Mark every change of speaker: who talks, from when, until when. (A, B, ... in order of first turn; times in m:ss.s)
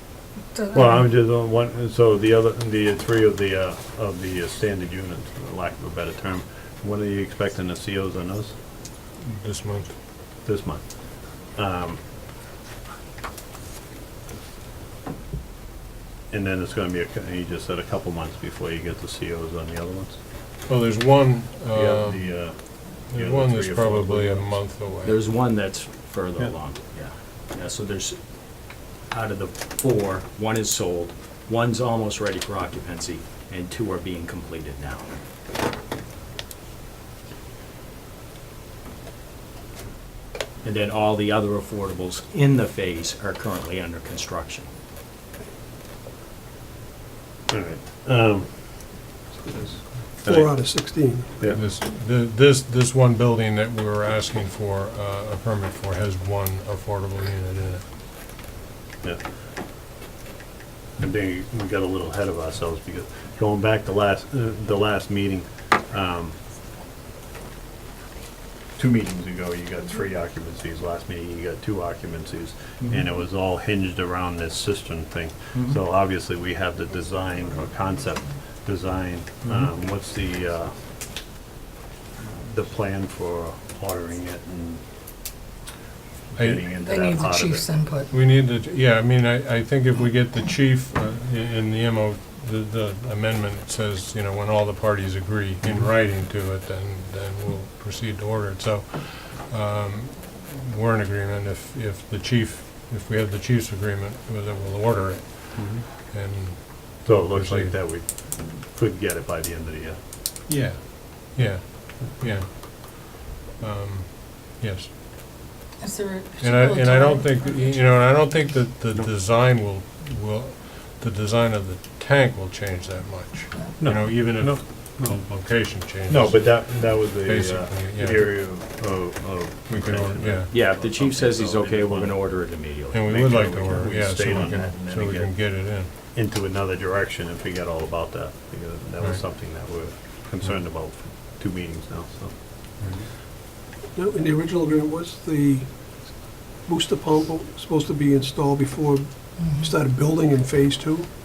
0:00.2-0:01.1 A
0:00.7-0:08.6 B
0:09.2-0:10.0 C
0:10.4-0:12.0 B
0:16.3-0:20.2 B
0:20.7-0:25.2 C
0:21.7-0:24.7 B
0:25.0-0:35.2 D
0:40.6-0:44.7 D
0:47.5-0:49.0 B
0:49.3-0:51.5 E
0:50.2-0:51.6 B
0:51.5-0:57.9 C
1:01.0-1:06.4 B
1:08.8-1:20.9 B
1:15.5-1:15.8 D
1:19.4-1:19.7 D
1:22.2-1:25.2 B
1:26.3-1:27.7 B
1:26.4-1:26.7 C
1:26.8-1:28.2 A
1:28.1-1:47.8 C
1:45.6-1:45.8 D
1:47.0-1:50.0 B
1:50.5-1:54.9 C
1:55.8-1:58.6 A
1:56.4-2:08.5 C
2:03.8-2:22.4 B
2:09.7-2:10.5 C
2:10.5-2:13.8 D
2:12.9-2:15.9 C
2:22.8-2:23.1 C
2:23.9-2:31.1 E
2:29.4-2:29.7 A